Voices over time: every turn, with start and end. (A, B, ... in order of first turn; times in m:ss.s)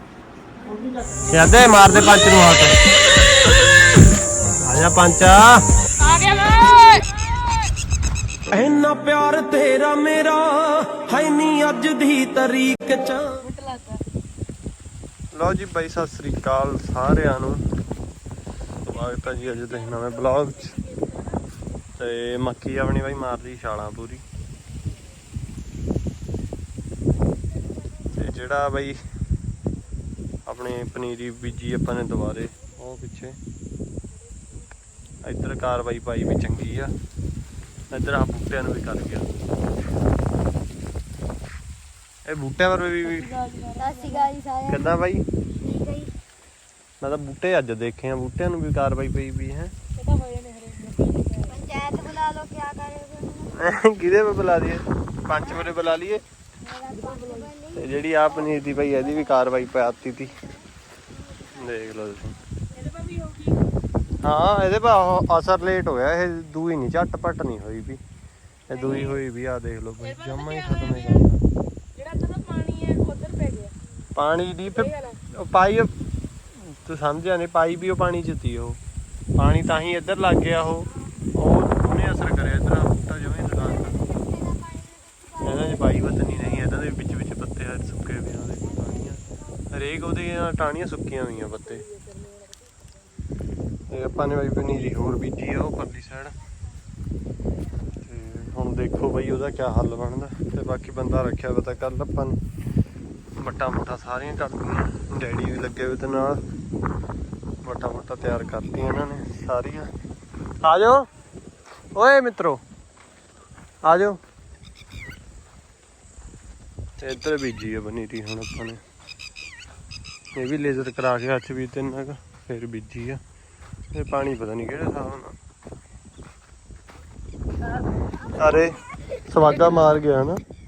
0:00.6-0:02.2 A
0:00.6-0:02.8 B
0:04.5-0:05.6 B
0:06.0-0:07.1 C
0:08.5-0:13.4 B
0:13.4-0:14.0 C
0:15.3-0:17.6 B
0:18.8-0:20.7 B
0:19.7-0:21.1 C
0:22.0-0:24.2 B
0:28.1-0:29.0 B
0:30.5-0:33.4 B
0:35.2-0:36.9 B
0:37.9-0:39.3 B
0:42.2-0:43.3 B
0:43.0-0:44.3 C
0:43.8-0:45.0 A
0:44.7-0:45.2 B
0:45.6-0:46.1 A
0:47.0-0:49.7 B
0:50.0-0:51.6 C
0:51.4-0:53.7 A
0:53.6-0:56.2 B
0:55.3-0:55.8 A
0:56.7-1:00.7 A
0:56.9-0:57.5 C
0:57.7-1:00.3 B
1:01.6-1:02.4 B
1:02.8-1:03.6 C
1:04.2-1:08.0 B
1:08.7-1:11.4 B
1:08.7-1:09.2 C
1:10.0-1:11.3 C
1:12.0-1:13.7 C
1:14.2-1:15.9 B
1:14.7-1:15.2 C
1:16.6-1:18.8 B
1:19.4-1:24.0 B
1:23.6-1:26.7 A
1:25.4-1:29.2 B
1:28.6-1:29.3 A
1:29.7-1:31.8 B
1:31.9-1:32.4 C
1:33.9-1:36.4 B
1:38.0-1:42.4 B
1:43.4-1:46.4 B
1:47.6-1:49.9 B
1:50.6-1:51.1 B
1:52.0-1:52.6 B
1:53.8-1:54.2 B
1:57.0-1:58.8 B
2:00.4-2:03.2 B
2:03.9-2:05.3 B
2:08.4-2:10.4 B
2:09.5-2:09.8 C